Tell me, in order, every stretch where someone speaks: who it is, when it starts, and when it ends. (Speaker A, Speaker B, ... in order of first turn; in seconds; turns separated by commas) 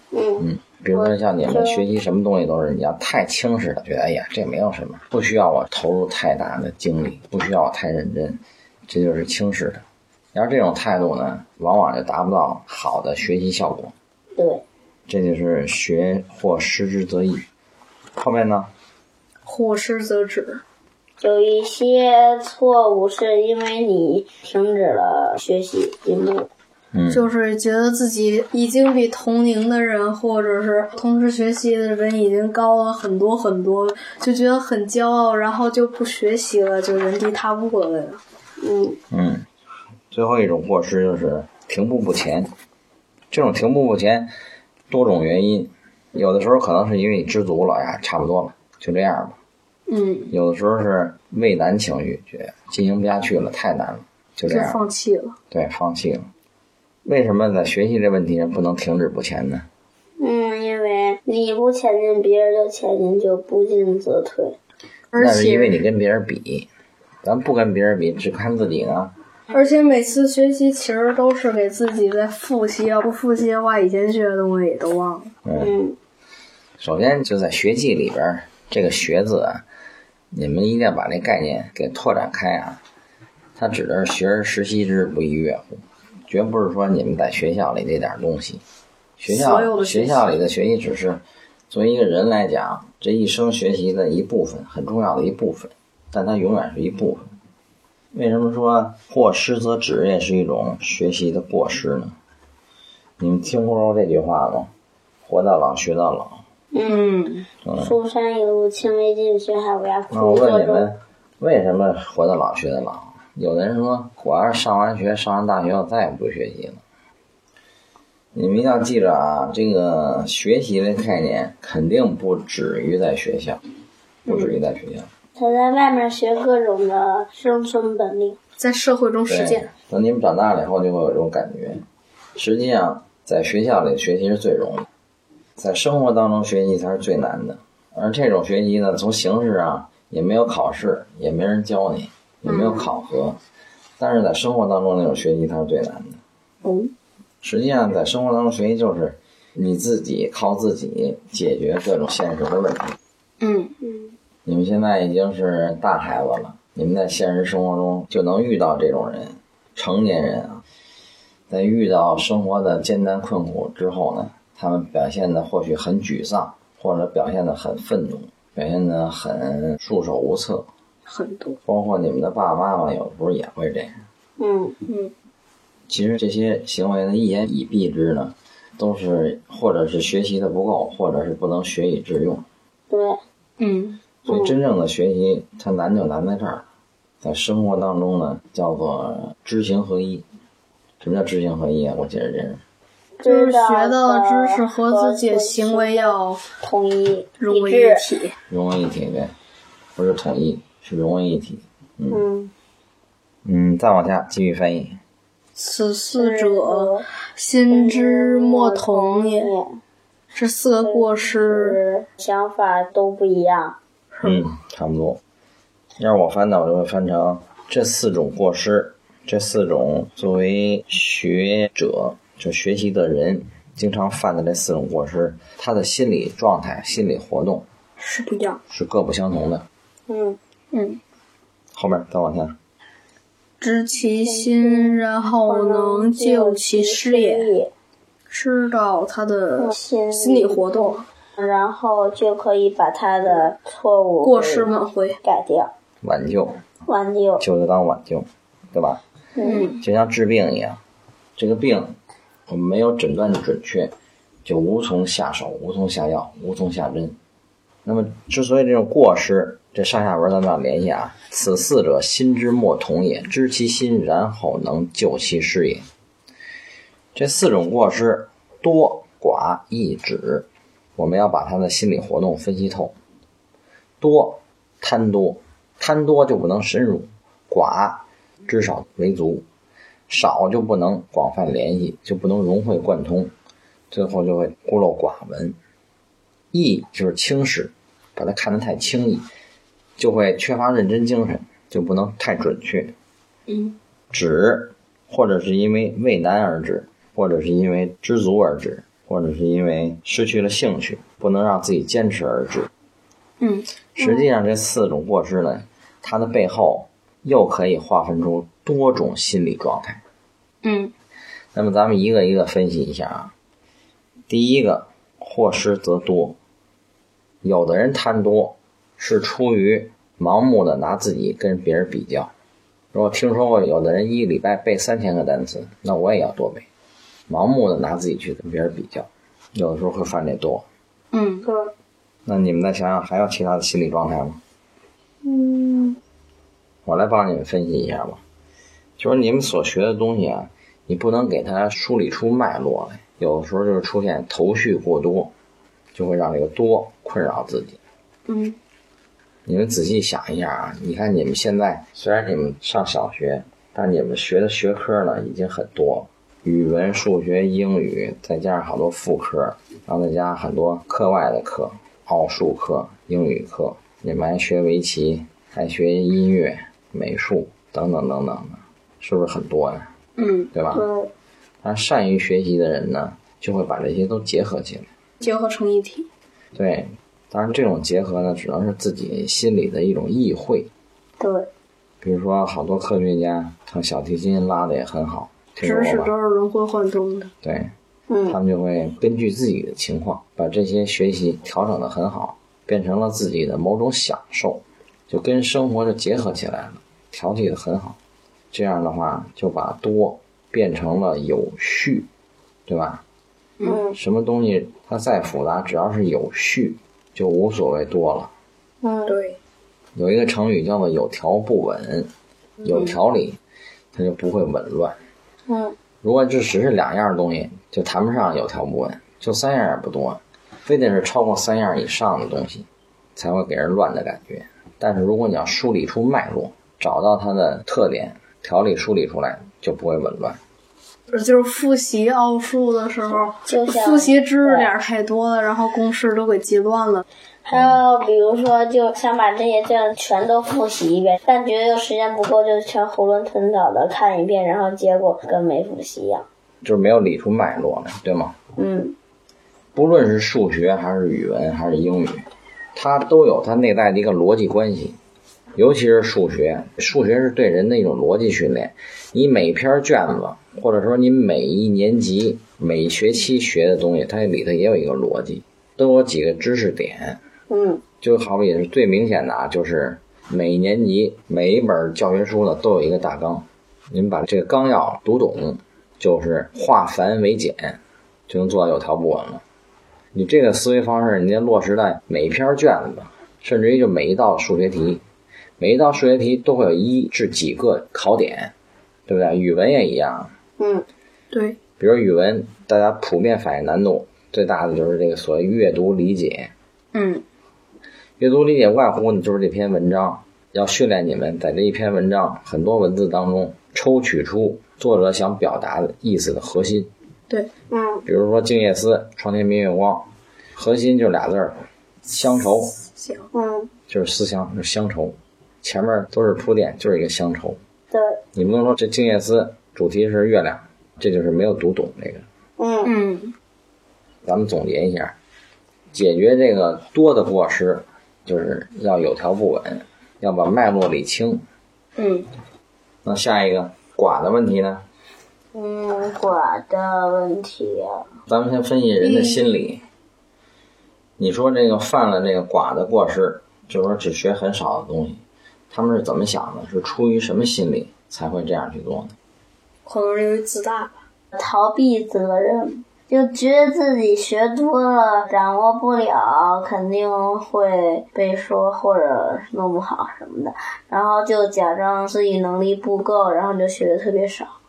Speaker A: 0.1-1.8, Speaker B: 0.4-13.9, Speaker A: 14.3-14.6, Speaker B: 15.1-17.4, Speaker B: 18.2-18.7, Speaker C: 19.4-20.6, Speaker A: 21.2-26.5, Speaker B: 26.9-27.2, Speaker C: 27.1-38.2, Speaker A: 38.6-39.0, Speaker B: 39.1-39.5, Speaker B: 40.1-42.5, Speaker B: 43.3-44.3, Speaker B: 44.9-49.4, Speaker C: 49.9-50.3, Speaker B: 50.3-54.8, Speaker C: 54.5-55.4, Speaker B: 55.5-56.3, Speaker B: 57.0-59.7, Speaker A: 60.2-64.6, Speaker C: 65.1-65.8, Speaker B: 65.2-66.7, Speaker B: 67.2-69.1, Speaker C: 69.5-75.3, Speaker B: 75.4-75.7, Speaker A: 75.6-76.0, Speaker B: 76.8-79.6, Speaker B: 80.3-82.8, Speaker B: 83.5-88.6, Speaker B: 89.2-97.3, Speaker C: 89.3-90.3, Speaker B: 98.1-102.2, Speaker B: 103.2-104.7, Speaker B: 105.2-106.4, Speaker A: 106.7-107.1, Speaker C: 106.8-107.5, Speaker B: 107.6-107.9, Speaker A: 107.8-110.9, Speaker B: 110.1-116.8, Speaker B: 118.3-123.6, Speaker B: 124.2-125.1, Speaker C: 124.3-124.6, Speaker A: 125.3-128.4, Speaker C: 128.6-129.7, Speaker B: 129.2-131.8, Speaker B: 132.3-134.9, Speaker B: 135.6-143.4, Speaker C: 142.5-142.9, Speaker B: 144.0-146.2, Speaker C: 146.6-146.9, Speaker B: 147.4-153.0, Speaker C: 153.4-153.8, Speaker B: 154.4-160.6, Speaker B: 161.5-170.7, Speaker C: 171.1-171.6, Speaker B: 171.6-174.0, Speaker A: 174.4-174.8, Speaker C: 174.9-175.1, Speaker B: 175.9-182.4, Speaker A: 182.9-183.2, Speaker C: 183.6-184.0, Speaker A: 184.2-184.6, Speaker B: 184.2-186.7, Speaker B: 187.2-190.2, Speaker B: 191.0-192.6, Speaker A: 193.2-198.1, Speaker C: 193.2-196.4, Speaker C: 197.4-198.4, Speaker B: 198.5-199.3, Speaker B: 199.9-202.2, Speaker A: 202.1-202.5, Speaker B: 203.4-205.0, Speaker C: 205.6-209.5, Speaker A: 206.1-207.1, Speaker A: 207.7-209.8, Speaker C: 210.3-211.8, Speaker A: 210.8-213.8, Speaker C: 214.1-214.5, Speaker B: 214.2-215.2, Speaker B: 216.0-227.7, Speaker C: 228.0-228.6, Speaker B: 228.7-229.7, Speaker A: 230.1-230.4, Speaker C: 230.7-231.0, Speaker B: 231.7-232.6, Speaker C: 233.6-237.5, Speaker A: 234.1-237.7, Speaker C: 238.3-241.1, Speaker A: 239.6-244.7, Speaker C: 244.2-245.2, Speaker A: 245.2-245.7, Speaker B: 246.0-246.6, Speaker A: 246.8-247.4, Speaker B: 247.4-249.0, Speaker A: 249.3-249.7, Speaker C: 249.4-249.8, Speaker B: 249.8-250.8, Speaker B: 251.4-252.0, Speaker B: 252.5-253.9, Speaker B: 254.4-257.2, Speaker B: 257.8-265.9, Speaker B: 267.1-272.9, Speaker B: 274.0-279.4, Speaker B: 280.1-283.3, Speaker B: 283.9-285.6, Speaker B: 286.5-289.2, Speaker B: 290.0-292.9, Speaker C: 293.5-293.8, Speaker B: 294.1-302.7, Speaker C: 303.4-304.2, Speaker B: 303.9-310.0, Speaker C: 310.6-310.9, Speaker B: 311.5-313.3, Speaker B: 314.3-316.4, Speaker B: 317.4-322.3, Speaker B: 322.9-326.6, Speaker B: 327.3-330.6, Speaker C: 331.1-331.4, Speaker A: 331.4-331.7, Speaker B: 332.2-334.4, Speaker A: 335.2-336.0, Speaker B: 336.8-338.2, Speaker B: 339.0-345.3, Speaker B: 345.9-347.8, Speaker C: 348.3-348.6, Speaker B: 349.4-369.9, Speaker C: 370.2-370.5, Speaker B: 370.5-370.8, Speaker A: 370.7-371.1, Speaker B: 371.6-374.9, Speaker C: 375.2-376.1, Speaker B: 376.5-380.7, Speaker A: 381.2-381.5, Speaker B: 382.0-386.1, Speaker C: 385.6-387.3, Speaker B: 387.4-387.7, Speaker A: 388.1-388.4, Speaker B: 388.3-398.0, Speaker B: 398.5-402.1, Speaker B: 402.7-403.0, Speaker A: 403.6-404.0, Speaker B: 403.9-408.3, Speaker A: 408.8-409.1, Speaker C: 409.1-409.4, Speaker B: 409.9-412.1, Speaker B: 412.6-413.4, Speaker B: 413.9-415.0, Speaker A: 415.5-415.8, Speaker B: 416.0-430.4, Speaker C: 431.1-437.0, Speaker A: 433.1-434.7, Speaker A: 437.4-446.2, Speaker B: 437.5-437.8, Speaker B: 446.6-448.4, Speaker A: 448.6-448.9, Speaker B: 449.7-455.0, Speaker B: 455.5-467.2, Speaker A: 467.5-467.8, Speaker B: 468.0-479.4, Speaker B: 480.1-485.0, Speaker B: 485.6-488.5, Speaker B: 489.1-490.3, Speaker A: 490.6-490.9, Speaker C: 491.3-491.6, Speaker B: 491.8-496.5, Speaker C: 496.9-497.2, Speaker B: 498.2-506.9, Speaker A: 507.7-508.0, Speaker B: 508.1-512.8, Speaker C: 512.9-513.3, Speaker A: 513.3-513.7, Speaker B: 513.9-517.6, Speaker A: 517.9-518.2, Speaker B: 518.3-522.2, Speaker A: 522.6-522.9, Speaker C: 522.8-523.3, Speaker B: 524.2-525.1, Speaker B: 525.9-531.4, Speaker C: 532.0-532.3, Speaker B: 533.0-534.8, Speaker A: 535.5-538.1, Speaker B: 538.3-539.8, Speaker C: 539.0-539.4, Speaker B: 541.2-549.1, Speaker C: 549.9-551.0, Speaker A: 551.3-564.5